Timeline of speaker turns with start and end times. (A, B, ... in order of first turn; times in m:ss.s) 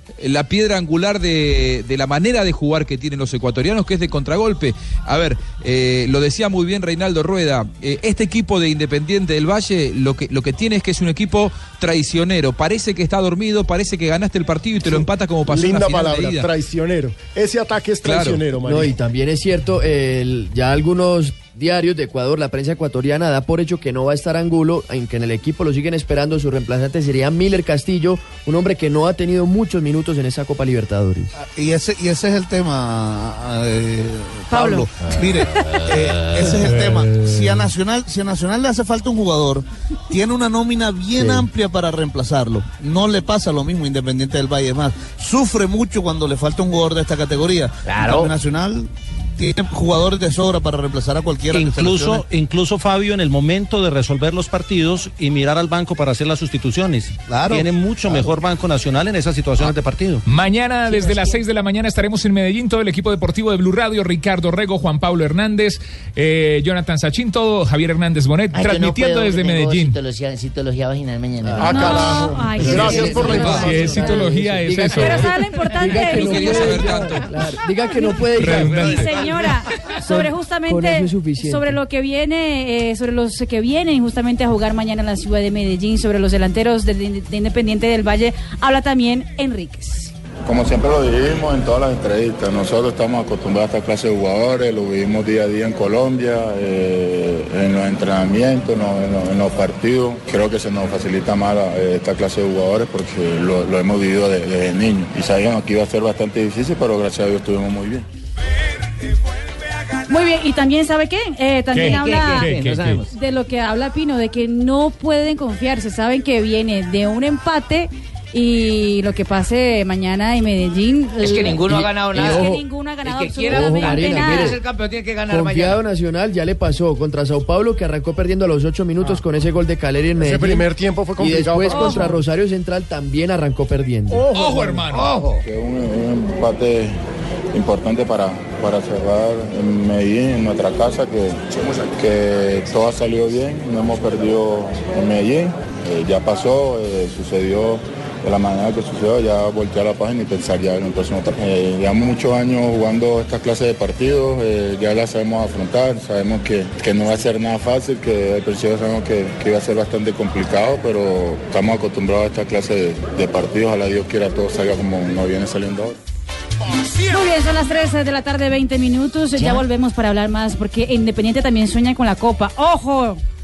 0:00.2-0:16.5 A
0:14.8-0:19.0 B
0:18.0-0:18.4 A
0:18.6-0:31.3 C
0:31.4-0:52.2 D
0:34.5-0:34.9 E
0:41.2-0:41.5 C
0:47.8-0:48.3 F
0:51.5-1:00.2 G
0:57.3-0:58.3 D
1:00.2-1:10.0 H
1:08.5-1:12.1 I
1:11.4-1:11.8 C
1:11.6-1:14.1 B
1:11.7-1:14.1 E
1:12.5-1:18.9 C
1:13.4-1:15.3 H
1:14.9-1:16.8 E
1:16.1-1:17.3 A
1:17.9-1:30.1 E
1:18.4-1:19.2 H
1:20.0-1:21.8 C
1:30.4-1:48.0 J
1:50.1-1:52.5 E
1:51.7-1:53.0 H
1:51.8-1:53.1 F
1:53.1-2:04.6 E
2:01.2-2:02.5 F
2:01.7-2:02.6 C
2:03.0-2:05.8 F
2:03.5-2:04.6 C
2:05.3-2:14.3 C
2:10.2-2:12.2 B
2:11.7-2:12.2 E
2:14.1-2:14.9 B
2:14.3-2:15.1 H
2:14.9-2:15.4 F
2:15.4-2:17.0 J
2:17.5-2:46.0 J
2:47.0-2:53.2 E
2:49.4-2:49.6 I